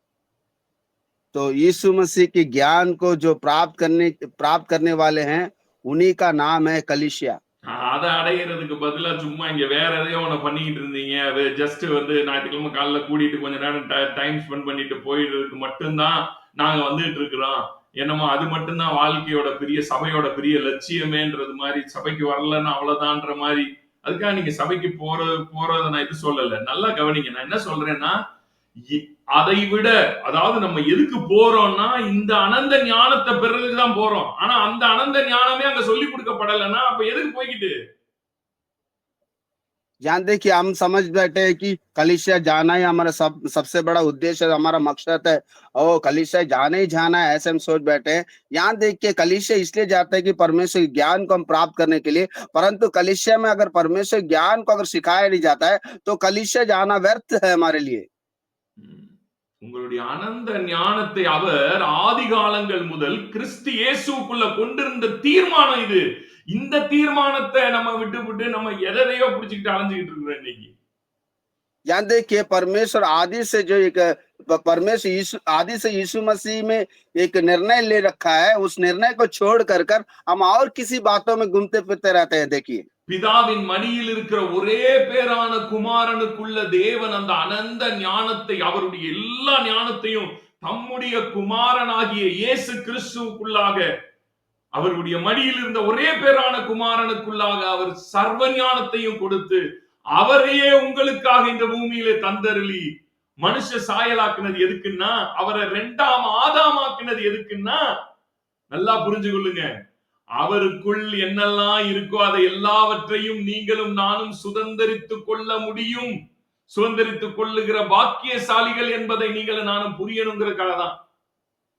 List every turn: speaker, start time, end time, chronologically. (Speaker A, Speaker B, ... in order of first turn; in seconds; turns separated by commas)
Speaker A: 1.3-7.4, Speaker B: 7.7-28.1, Speaker B: 28.9-37.8, Speaker A: 40.0-58.1, Speaker B: 58.8-66.0, Speaker B: 66.5-70.7, Speaker A: 71.9-82.8, Speaker B: 83.1-93.9, Speaker B: 94.8-99.6, Speaker B: 100.2-102.8, Speaker B: 103.4-107.8, Speaker B: 108.7-109.7, Speaker B: 110.4-116.2, Speaker B: 116.7-120.9